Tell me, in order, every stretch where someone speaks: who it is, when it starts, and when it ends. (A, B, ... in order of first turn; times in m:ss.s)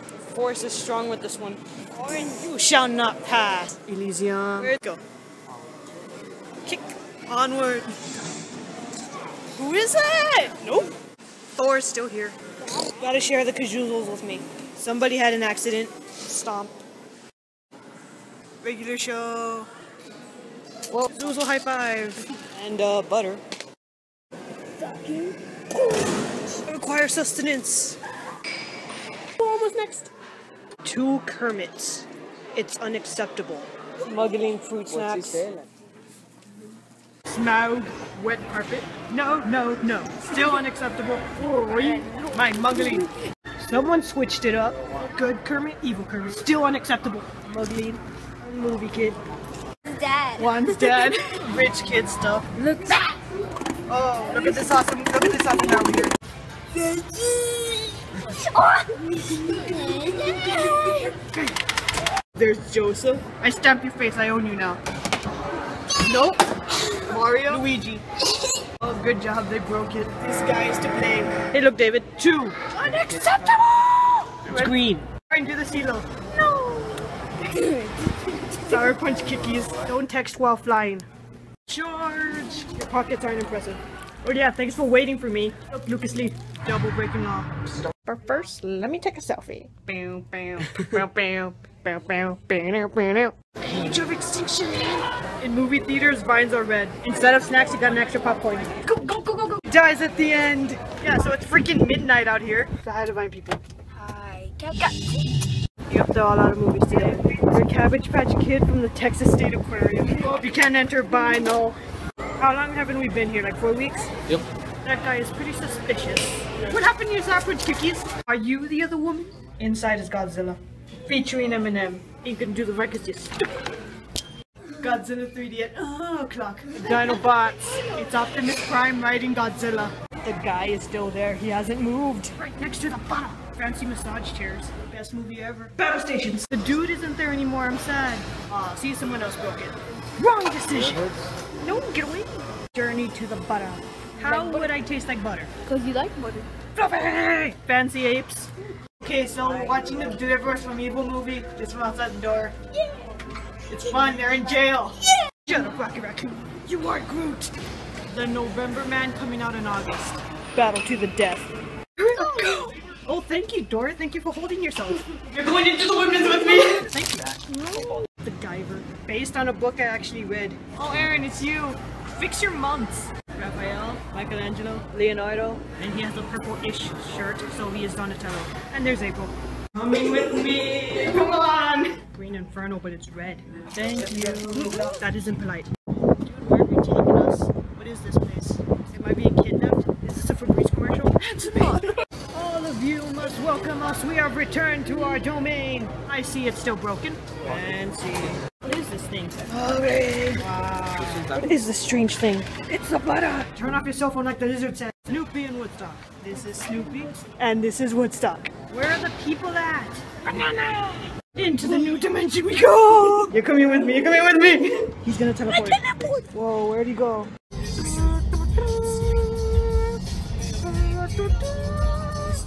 0:00.3-0:05.0 A
0:06.7-0:07.9 A
0:09.6-0:10.9 A
0:11.6-0:12.4 A
0:13.0-0:16.8 A
0:18.6-0:19.7 A
0:20.9-0:23.4 A
0:24.9-0:25.3 A
0:26.5-0:28.0 A
0:29.4-0:30.1 A
0:30.8-0:35.6 A
0:37.3-0:49.2 A
0:41.7-0:42.3 B
0:49.9-0:50.4 B
0:50.4-0:52.5 A
0:52.6-0:53.2 B
0:53.9-0:56.1 A
0:56.8-1:01.2 B
0:59.4-1:01.6 A
1:02.4-1:04.8 A
1:06.0-1:08.0 A
1:08.8-1:16.2 A
1:13.3-1:13.6 B
1:16.4-1:18.4 B
1:18.6-1:21.1 A
1:21.7-1:43.6 A
1:44.0-1:45.0 B
1:45.9-1:51.8 A
1:52.4-1:54.1 A
1:54.8-2:03.5 A
2:04.8-2:21.1 A
2:21.6-2:25.5 A
2:25.7-2:26.5 B
2:26.8-2:32.6 A
2:33.7-2:37.5 A
2:38.1-3:05.7 A
3:06.2-3:39.9 A
3:35.5-3:36.2 B
3:40.6-3:42.4 A